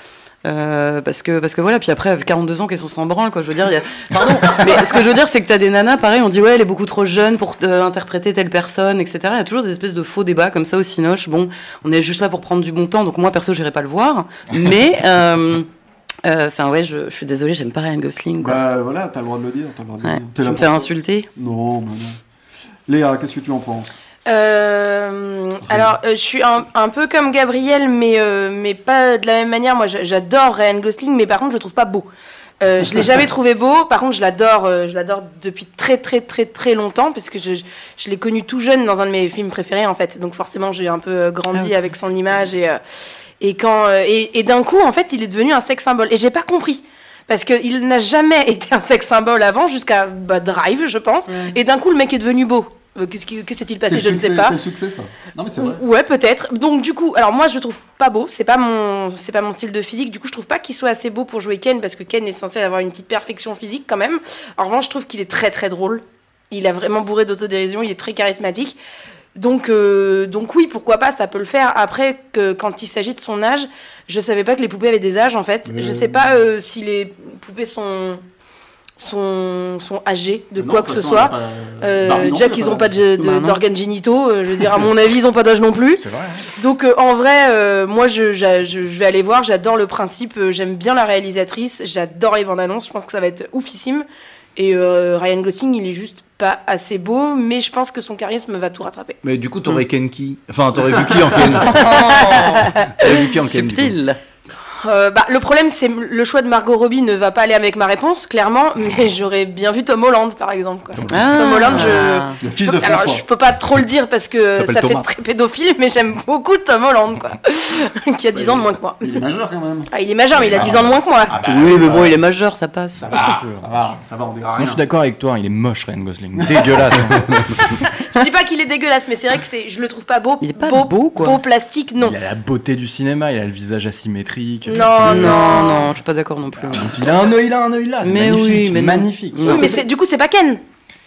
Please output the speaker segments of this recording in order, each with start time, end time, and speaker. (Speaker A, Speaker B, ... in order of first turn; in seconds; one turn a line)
Speaker A: 0.5-15.7
Speaker A: 16.2-18.6
Speaker B: 18.4-22.2
Speaker A: 20.0-21.3
Speaker B: 22.9-23.9
Speaker C: 24.3-32.1
Speaker C: 32.6-42.8
Speaker A: 41.5-41.9
Speaker C: 43.4-54.6
Speaker B: 53.9-55.8
Speaker C: 55.6-68.8
Speaker C: 69.3-78.2
Speaker B: 75.7-76.3
Speaker C: 79.0-99.2
Speaker B: 80.6-83.0
Speaker A: 83.2-83.6
Speaker D: 86.0-86.5
Speaker E: 99.2-102.1
Speaker C: 101.7-102.4
Speaker B: 101.8-102.5
Speaker A: 102.0-104.2
Speaker E: 102.6-104.0
Speaker C: 104.8-119.1
Speaker E: 111.0-111.3
Speaker A: 111.1-112.4
Speaker B: 112.4-113.2
Speaker E: 114.5-115.1
Speaker B: 118.3-119.9
Speaker C: 119.9-121.4
Speaker B: 120.5-122.2
Speaker A: 121.5-123.2
Speaker D: 123.0-123.8
Speaker B: 123.0-124.8
Speaker D: 124.5-127.5
Speaker B: 126.3-127.0
Speaker C: 127.8-132.2
Speaker A: 130.4-131.4
Speaker D: 132.0-135.7
Speaker C: 134.7-135.9
Speaker A: 135.1-137.0
Speaker D: 136.7-139.7
Speaker A: 138.0-139.8
Speaker C: 139.4-140.6